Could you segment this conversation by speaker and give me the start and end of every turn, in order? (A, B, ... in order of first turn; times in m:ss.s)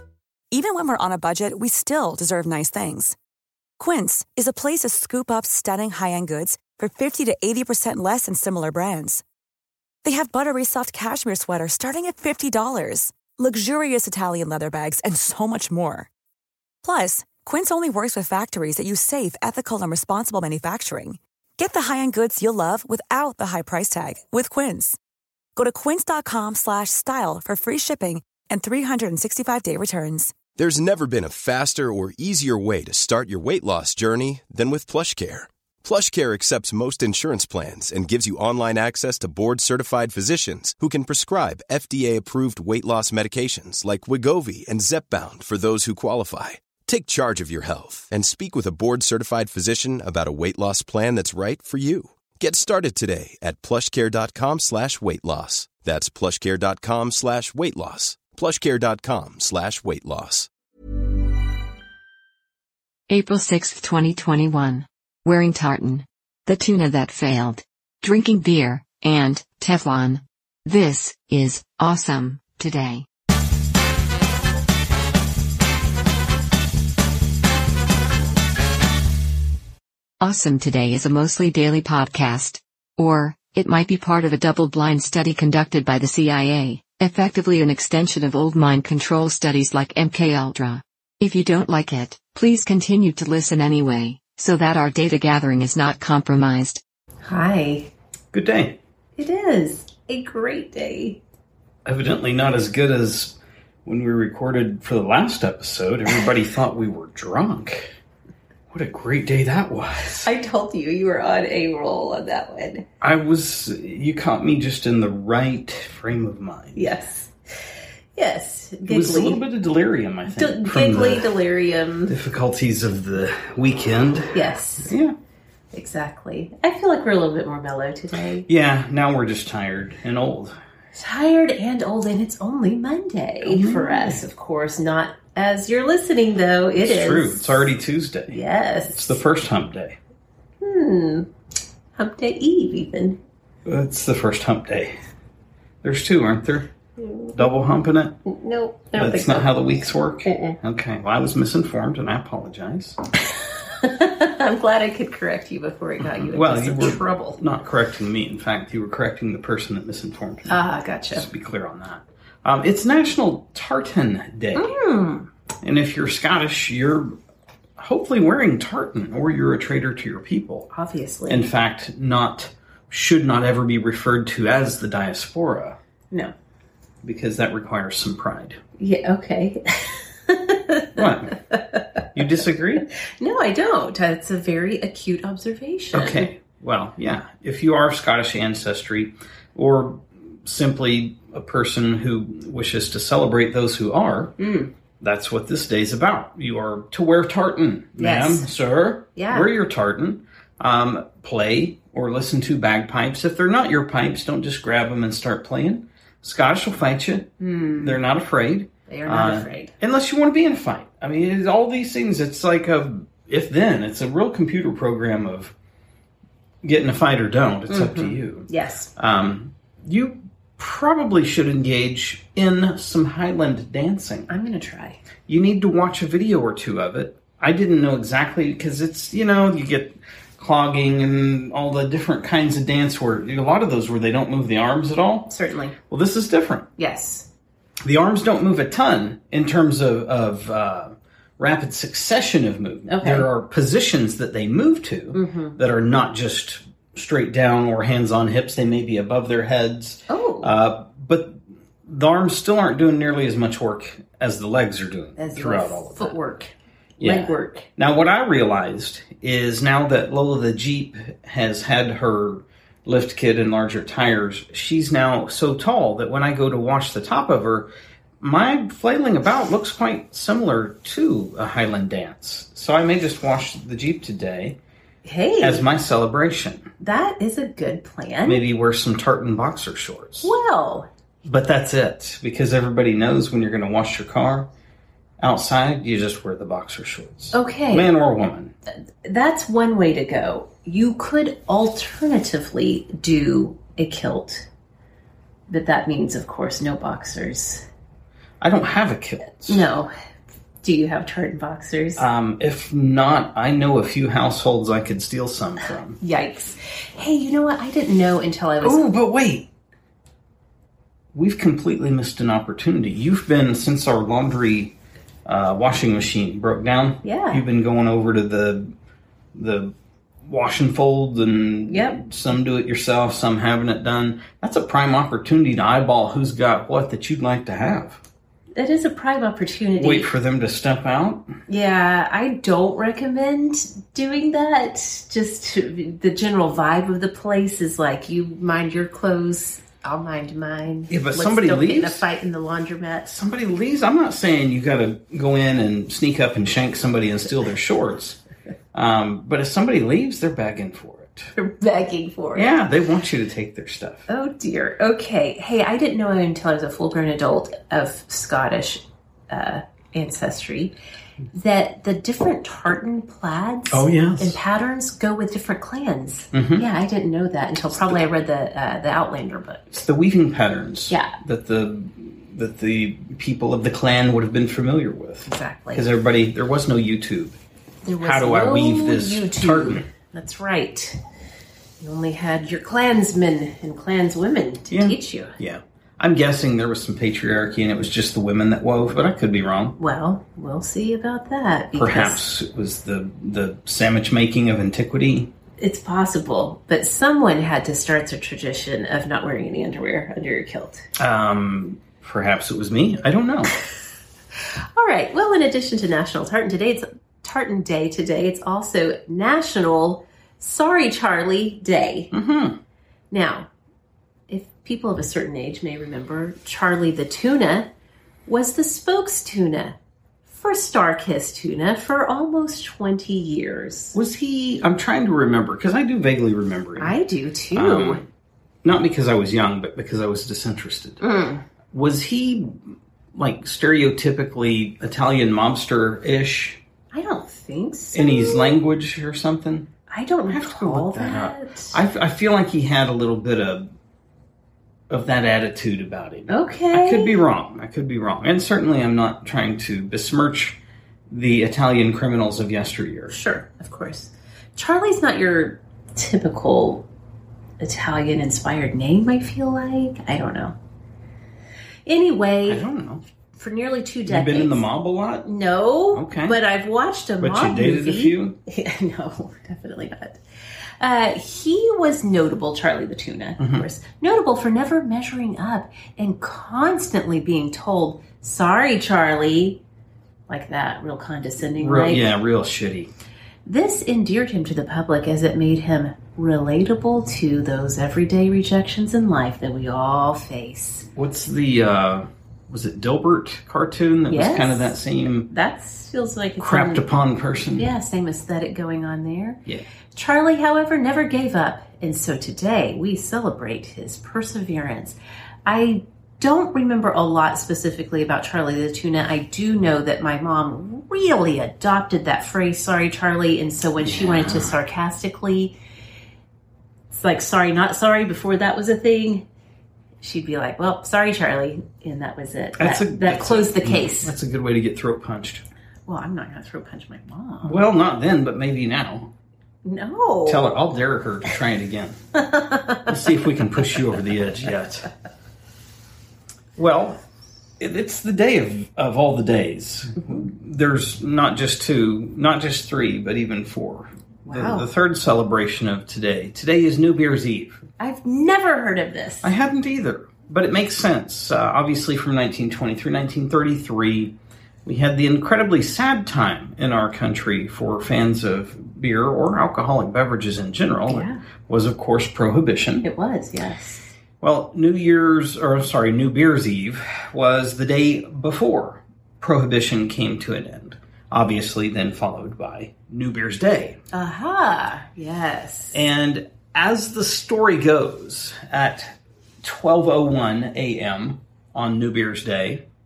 0:00.5-0:03.2 A
0:03.8-0:09.2 A
0:10.0-0:16.1 A
0:16.8-0:25.0 A
0:25.6-0:30.4 A
0:30.5-1:00.5 B
1:03.1-1:13.0 C
1:20.2-1:36.8 C
1:37.2-1:37.9 D
1:38.3-1:38.8 E
1:39.2-1:41.2 D
1:41.8-1:47.9 E
1:48.7-1:50.3 E
1:50.2-1:52.8 D
1:53.0-1:56.8 E
1:56.7-1:57.3 D
1:58.1-1:59.4 D
1:58.8-2:01.3 E
2:00.3-2:02.2 D
2:02.1-2:05.1 E
2:04.3-2:04.9 D
2:05.7-2:08.5 D
2:08.5-2:10.6 E
2:10.9-2:17.7 D
2:13.4-2:14.2 E
2:16.8-2:18.4 E
2:18.3-2:19.2 D
2:18.9-2:20.0 E
2:20.6-2:21.3 D
2:22.0-2:23.2 D
2:23.6-2:24.9 E
2:25.8-2:26.7 E
2:27.0-2:27.3 D
2:27.3-2:28.2 E
2:28.2-2:30.6 D
2:28.9-2:33.0 E
2:33.2-2:37.4 D
2:36.0-2:40.6 E
2:40.5-2:41.3 D
2:41.1-2:44.8 E
2:44.5-2:45.3 D
2:45.6-2:47.1 E
2:47.8-2:50.7 E
2:50.7-2:51.4 D
2:51.3-2:55.8 E
2:57.0-2:58.6 E
2:58.8-3:01.8 D
3:01.0-3:01.3 E
3:02.1-3:02.8 E
3:03.2-3:06.3 D
3:05.9-3:14.4 E
3:14.4-3:14.7 D
3:15.0-3:35.5 E
3:18.0-3:18.5 D
3:19.1-3:19.5 D
3:27.4-3:28.0 D
3:28.9-3:29.7 D
3:36.6-3:44.3 E
3:37.7-3:38.9 D
3:44.3-3:45.0 D
3:45.3-3:55.3 E
3:55.3-3:55.8 D
3:55.9-3:56.7 E
3:56.8-3:57.3 D
3:57.8-4:16.1 E
4:02.9-4:03.3 D
4:05.1-4:05.6 D
4:10.1-4:10.5 D
4:15.2-4:17.7 D
4:17.0-4:27.7 E
4:28.2-4:34.6 E
4:35.0-4:35.6 D
4:35.4-4:36.7 E
4:36.8-4:38.4 D
4:38.2-4:40.3 E
4:40.2-4:40.9 D
4:41.2-4:44.5 E
4:45.2-4:48.5 E
4:47.3-4:47.9 D
4:49.0-4:54.5 D
4:55.5-4:57.6 D
4:58.4-4:59.7 E
4:59.5-4:59.9 D
5:00.6-5:02.0 D
5:02.0-5:06.0 E
5:06.0-5:08.8 D
5:08.6-5:09.5 E
5:11.1-5:18.7 E
5:17.0-5:17.4 D
5:19.3-5:28.0 E
5:21.7-5:22.0 D
5:28.5-5:30.1 D
5:29.7-5:31.3 E
5:31.5-5:43.2 D
5:40.9-5:42.1 E
5:43.2-5:48.2 E
5:48.7-5:51.3 E
5:51.4-5:52.5 D
5:52.3-5:54.1 E
5:54.1-6:00.7 D
6:01.3-6:09.7 D
6:03.7-6:04.4 E
6:06.3-6:06.6 E
6:07.7-6:08.0 E
6:09.7-6:17.4 E
6:10.9-6:11.1 D
6:15.3-6:15.8 D
6:17.8-6:21.0 D
6:18.0-6:19.9 E
6:21.8-6:25.3 D
6:24.7-6:29.8 E
6:29.8-6:32.2 D
6:31.7-6:35.3 E
6:35.6-6:40.8 D
6:41.0-6:43.5 E
6:44.8-6:52.1 D
6:52.1-6:52.6 E
6:53.1-6:53.5 D
6:54.3-6:57.7 D
6:58.2-7:04.0 D
7:03.9-7:07.0 E
7:06.8-7:08.0 D
7:07.5-7:08.0 E
7:08.6-7:11.0 E
7:11.0-7:11.4 D
7:11.7-7:16.6 E
7:16.9-7:18.5 D
7:17.9-7:19.7 E
7:19.9-7:21.8 D
7:20.3-7:23.7 E
7:24.9-7:30.6 E
7:26.3-7:27.2 D
7:31.1-7:33.1 E
7:33.1-7:36.9 D
7:37.6-7:40.6 D
7:41.8-7:42.6 D
7:42.5-7:43.0 E
7:43.3-7:44.6 D
7:44.0-7:45.3 E
7:45.2-7:50.2 D
7:45.9-7:46.4 E
7:47.2-7:48.4 E
7:50.8-7:59.6 D
7:53.4-7:53.6 E
8:00.3-8:02.1 D
8:01.4-8:02.9 E
8:03.4-8:10.9 D
8:11.0-8:15.3 E
8:14.1-8:14.7 D
8:15.3-8:16.8 D
8:16.4-8:17.7 E
8:17.5-8:19.4 D
8:19.9-8:35.6 D
8:33.8-8:34.6 E
8:36.9-8:39.3 D
8:40.0-8:44.1 D
8:42.6-8:45.4 E
8:45.9-8:47.6 D
8:47.4-8:49.1 E
8:49.6-8:50.5 D
8:50.2-8:52.0 E
8:52.2-8:52.9 D
8:52.8-8:54.9 E
8:56.6-8:57.0 E
8:57.6-9:07.6 E
9:04.2-9:04.7 D
9:07.8-9:09.3 D
9:09.2-9:22.8 E
9:20.9-9:21.2 D
9:22.8-9:23.9 D
9:24.2-9:33.8 E
9:33.9-9:35.8 D
9:35.7-9:42.6 E